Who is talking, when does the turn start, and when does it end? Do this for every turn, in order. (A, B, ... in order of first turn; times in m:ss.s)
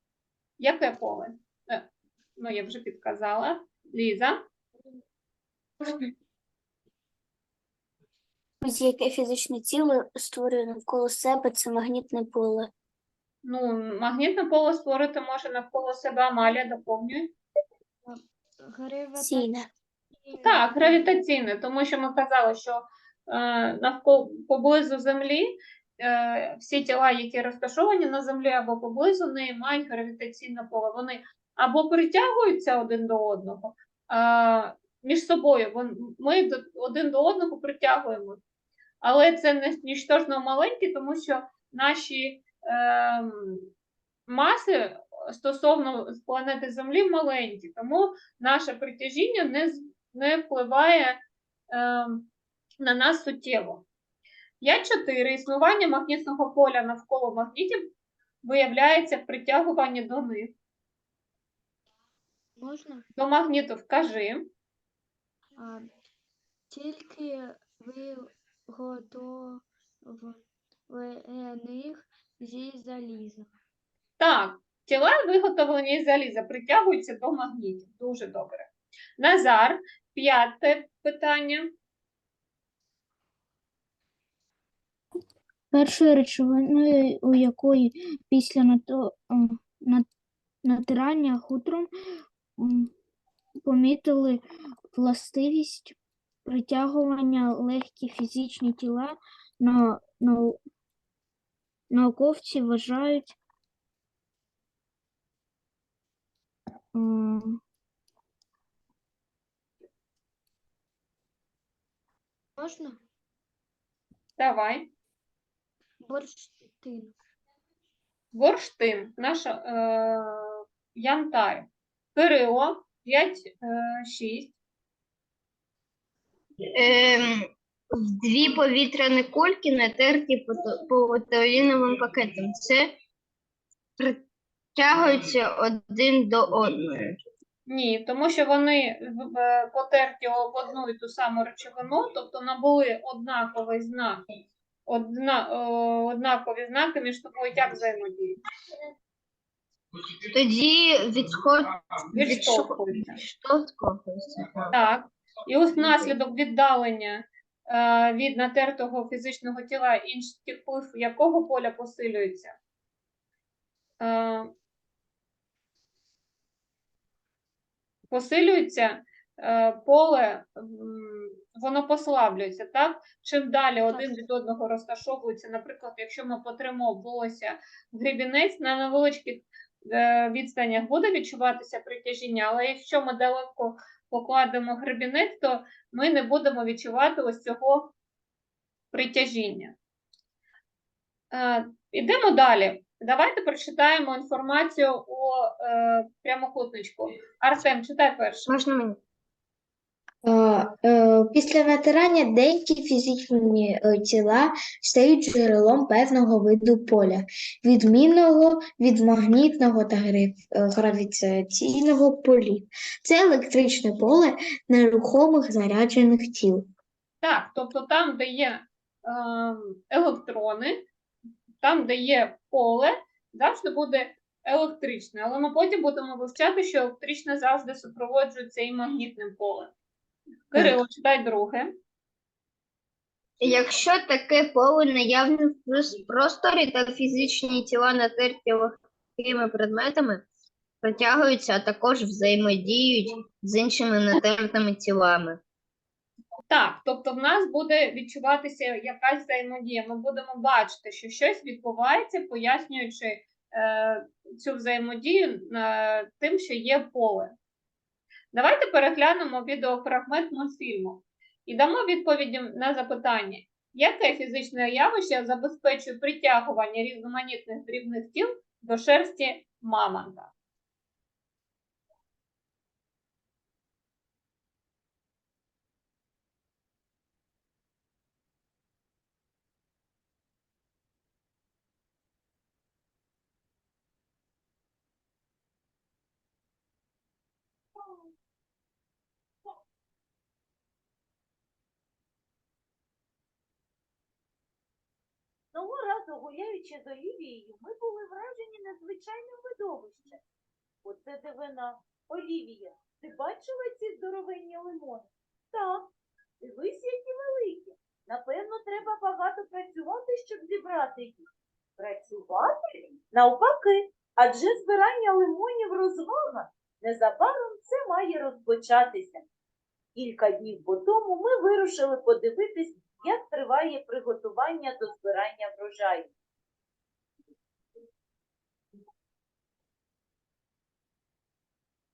0:00.6-0:04.4 A
0:08.6-0:12.7 B
0:13.4-0:17.3 A
0:18.0-0:19.5 C
0:19.2-0:19.7 B
0:20.2-0:21.1 C
0:20.4-0:38.4 A
0:39.0-0:43.7 A
0:44.3-0:51.2 A
0:51.7-0:52.3 A
0:52.8-0:53.8 A
0:54.6-0:57.9 A
0:58.4-1:00.5 A
1:02.6-1:03.0 C
1:03.2-1:04.5 A
1:05.6-1:05.9 C
1:06.7-1:13.5 C
1:14.2-1:21.7 A
1:25.7-1:30.0 D
1:30.6-1:31.9 D
1:32.6-1:32.9 D
1:33.6-1:34.4 D
1:34.9-1:40.6 D
1:41.9-1:43.4 D
1:46.9-1:47.6 D
1:52.6-1:53.0 C
1:54.4-1:54.9 A
1:56.0-1:57.1 C
1:58.3-2:04.5 A
2:06.7-2:12.9 E
2:14.8-2:17.2 E
2:17.7-2:24.2 A
2:24.8-2:28.4 A
2:30.3-2:34.7 E
2:32.1-2:33.2 A
2:34.7-2:42.6 A
2:44.0-2:44.5 A
2:48.1-3:07.9 A
3:08.9-3:09.8 A
3:11.3-3:18.5 A
3:18.5-3:19.0 E
3:20.2-3:36.7 F
3:37.2-3:40.8 A
3:41.6-3:49.7 A
3:50.5-3:51.7 A
3:53.4-4:00.2 E
4:00.8-4:05.4 E
4:06.5-4:17.3 A
4:18.3-4:30.3 A
4:55.5-5:00.2 G
5:00.8-5:05.9 G
5:06.4-5:11.2 G
5:11.8-5:12.6 G
5:13.1-5:19.2 G
5:19.9-5:26.1 G